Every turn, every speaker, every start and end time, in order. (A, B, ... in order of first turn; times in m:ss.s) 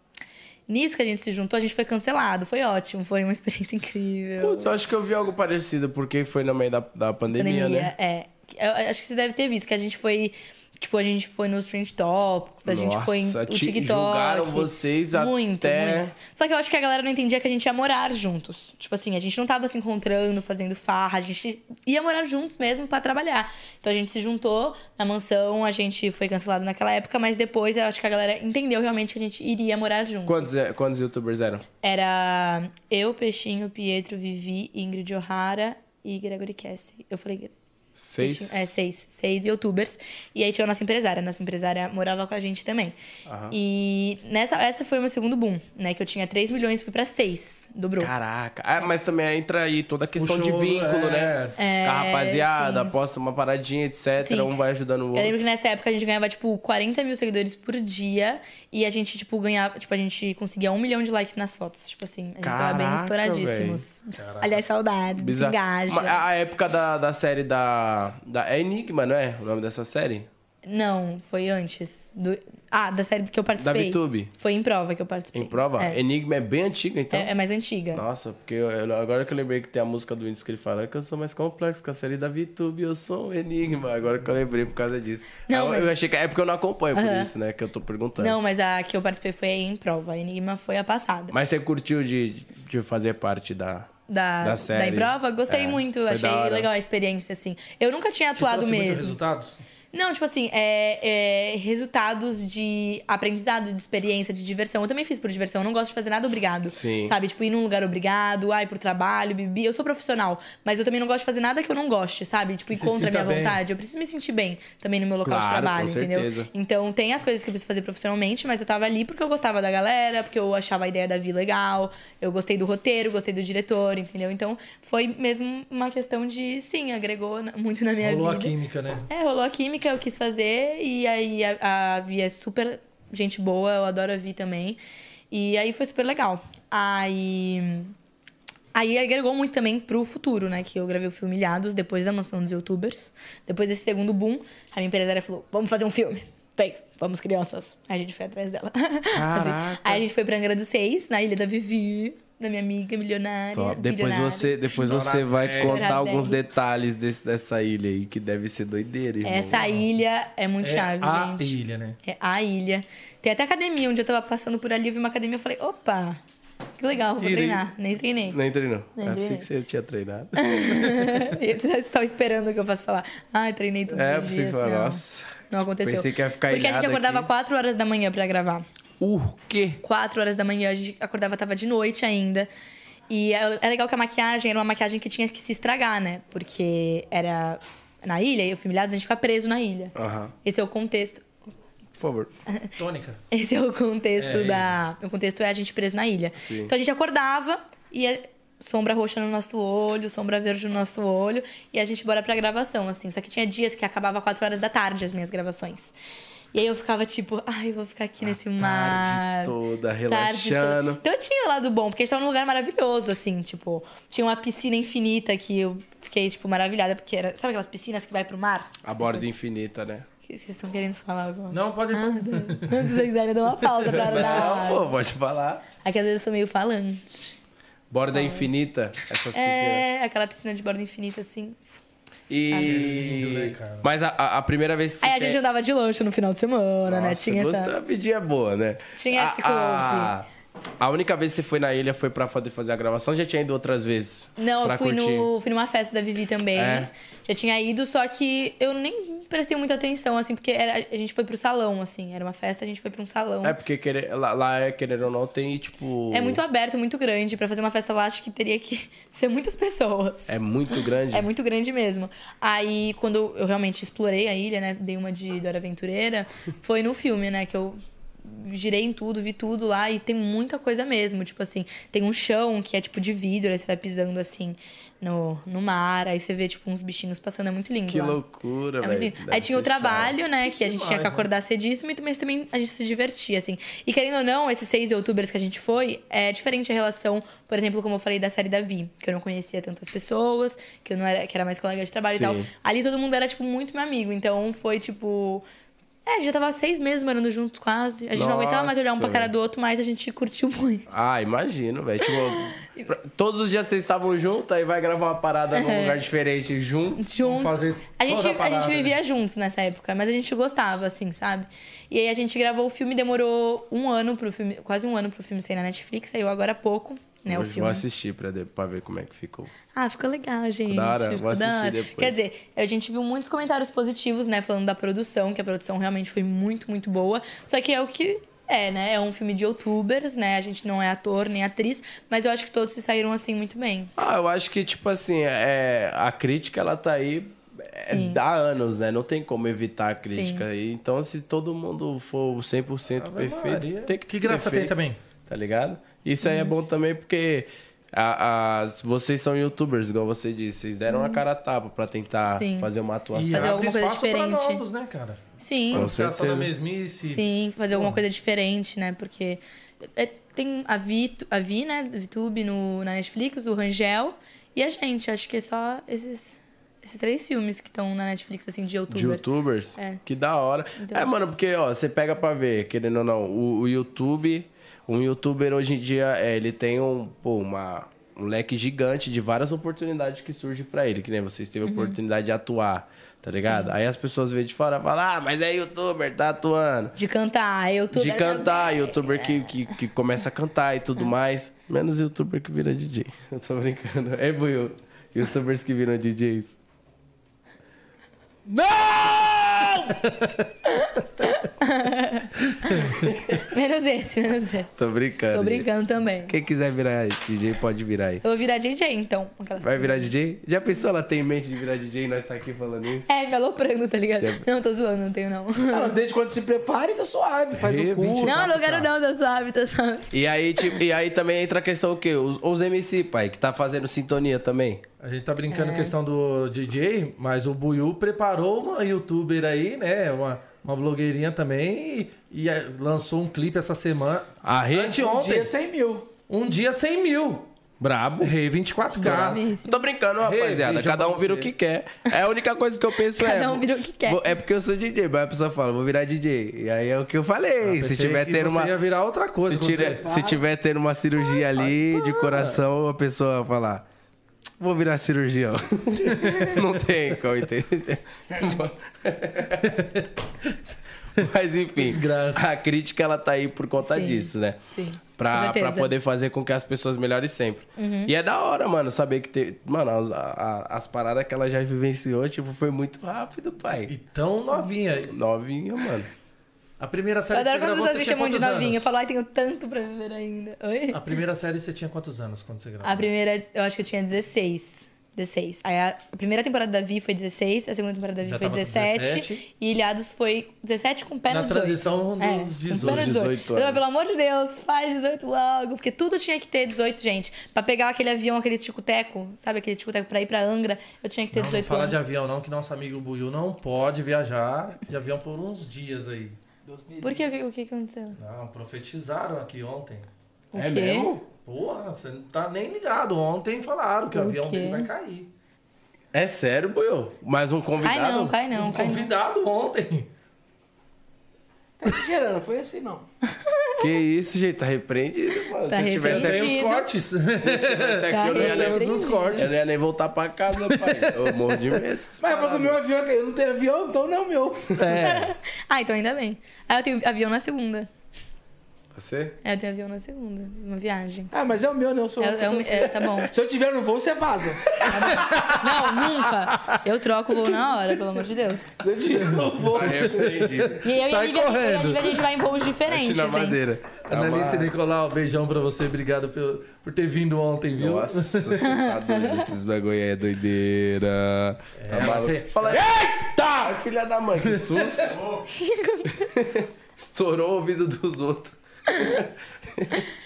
0:00.7-0:04.8 A
0:04.4-0:07.9 B
0:07.3-0:30.5 A
0:12.7-0:16.1 B
0:30.3-0:31.6 B
0:31.8-0:37.5 A
0:38.0-0:38.8 B
0:38.2-0:43.0 A
0:43.3-0:43.6 B
0:43.5-0:48.1 A
0:48.0-0:55.4 B
0:50.2-0:51.6 C
0:51.6-0:52.9 A
0:54.2-0:54.5 A
0:55.1-1:06.2 A
1:02.4-1:03.8 B
1:04.2-1:04.6 C
1:05.2-1:10.3 B
1:10.6-1:16.0 A
1:13.6-1:14.3 B
1:15.3-1:17.3 B
1:17.1-1:18.0 A
1:17.9-1:28.4 B
1:25.5-1:25.9 A
1:26.9-1:27.3 A
1:28.2-1:31.4 A
1:31.3-1:36.7 B
1:34.1-1:39.2 A
1:38.4-1:39.6 C
1:39.9-2:08.5 A
1:46.7-1:47.2 B
1:52.7-1:53.6 C
1:55.2-1:56.5 B
2:08.0-2:09.1 C
2:09.1-2:14.8 A
2:15.3-2:17.9 A
2:18.7-2:36.4 A
2:29.1-2:30.0 B
2:33.5-2:39.6 B
2:34.8-2:35.9 C
2:39.2-2:46.2 A
2:39.6-2:39.8 C
2:40.6-2:42.0 C
2:46.8-2:48.4 A
2:47.2-2:47.6 B
2:48.3-2:51.3 B
2:49.0-2:49.5 A
2:50.4-2:58.6 A
2:53.9-2:57.3 B
2:59.0-2:59.8 B
2:59.8-3:02.5 A
3:03.1-3:11.2 A
3:10.0-3:10.3 B
3:12.0-3:12.3 B
3:12.8-3:13.2 C
3:13.3-3:25.9 A
3:14.2-3:14.7 C
3:16.4-3:16.7 B
3:26.5-3:29.6 A
3:28.6-3:31.0 B
3:30.1-3:39.3 A
3:38.8-3:40.1 B
3:40.2-3:44.9 A
3:41.5-3:43.1 C
3:43.6-3:44.6 C
3:44.0-3:45.6 B
3:45.8-3:47.4 A
3:47.9-3:49.8 B
3:48.0-3:48.5 A
3:49.3-3:51.8 A
3:52.3-3:55.4 B
3:52.5-3:52.9 A
3:52.6-3:53.9 C
3:55.0-3:57.8 A
3:56.9-4:00.3 B
3:58.9-4:00.1 A
4:00.8-4:05.3 B
4:04.4-4:13.6 A
4:06.6-4:06.9 B
4:13.4-4:16.4 B
4:16.1-4:38.2 A
4:20.3-4:21.3 B
4:37.9-4:40.2 B
4:38.8-4:55.4 A
4:40.4-4:41.3 C
4:52.1-4:52.5 B
4:56.0-5:00.9 A
4:58.1-4:59.3 B
5:00.9-5:07.0 B
5:02.1-5:02.9 A
5:05.5-5:06.0 A
5:07.0-5:17.8 A
5:07.2-5:09.0 C
5:17.3-5:19.5 B
5:19.7-5:33.9 A
5:20.7-5:22.3 B
5:34.0-5:44.7 B
5:37.8-5:38.2 A
5:40.1-5:40.5 A
5:43.0-5:45.0 C
5:45.3-5:53.6 B
5:46.2-5:46.5 A
5:50.9-5:51.2 A
5:52.3-5:52.7 A
5:53.1-5:58.0 C
5:53.3-5:54.6 A
5:55.4-5:55.9 A
5:55.7-5:56.5 B
5:57.0-6:09.2 A
6:08.9-6:27.0 B
6:09.8-6:10.0 A
6:10.8-6:11.1 A
6:21.6-6:22.0 A
6:23.4-6:23.7 A
6:27.0-6:29.5 A
6:27.9-6:36.6 B
6:38.5-6:40.0 D
6:40.6-6:46.4 A
6:42.6-6:43.0 C
6:43.0-6:43.4 B
6:44.8-6:45.7 B
6:46.2-6:48.2 B
6:48.2-6:50.1 A
6:49.6-6:53.1 B
6:53.1-6:56.0 A
6:54.2-6:54.4 B
6:55.7-6:58.5 D
6:57.5-6:58.9 C
6:58.2-7:00.1 A
7:00.1-7:04.8 B
7:05.0-7:15.5 C
7:05.5-7:05.9 A
7:14.4-7:15.0 B
7:14.9-7:16.1 D
7:16.3-7:17.5 C
7:17.8-7:18.3 B
7:18.2-7:19.4 C
7:18.9-7:19.9 A
7:19.0-7:28.7 B
7:20.2-7:21.5 C
7:23.0-7:24.4 A
7:27.6-7:30.1 C
7:29.4-7:33.8 B
7:30.0-7:30.4 D
7:32.3-7:32.6 C
7:34.6-7:39.8 B
7:36.1-7:36.6 C
7:39.6-7:42.5 C
7:41.2-7:44.6 B
7:43.8-7:45.9 A
7:45.2-7:53.9 B
7:47.8-7:48.1 A
7:53.9-7:55.2 C
7:55.1-7:56.1 B
7:56.8-7:58.9 C
7:57.3-8:01.0 A
8:00.9-8:03.1 C
8:02.8-8:22.1 A
8:08.2-8:09.4 C
8:11.3-8:13.2 C
8:12.7-8:13.9 B
8:21.3-8:26.4 C
8:26.6-8:27.3 D
8:27.0-8:28.2 A
8:28.2-8:30.1 C
8:30.5-8:31.1 A
8:30.6-8:31.2 B
8:31.4-8:35.3 C
8:34.1-8:34.9 A
8:36.1-8:38.4 B
8:37.8-8:39.1 A
8:38.5-8:40.1 C
8:41.8-8:43.1 D
8:43.3-8:43.8 A
8:43.8-8:46.6 B
8:45.7-8:46.9 A
8:46.0-8:49.6 C
8:47.4-8:52.7 B
8:48.1-8:49.5 A
8:50.7-8:51.0 C
8:52.2-8:55.0 D
8:54.8-8:55.3 C
8:55.0-8:57.9 A
8:58.9-8:59.4 B
8:59.4-9:01.3 A
9:01.3-9:04.9 D
9:02.2-9:03.3 A
9:04.8-9:08.8 A
9:05.2-9:05.8 C
9:08.8-9:10.6 D
9:09.2-9:12.3 C
9:09.7-9:10.8 B
9:10.8-9:13.6 A
9:12.9-9:14.7 B
9:14.1-9:18.7 C
9:17.8-9:25.3 B
9:18.6-9:19.5 A
9:21.8-9:22.8 C
9:24.4-9:25.2 C
9:25.4-9:26.3 A
9:26.2-9:30.0 B
9:28.9-9:29.2 A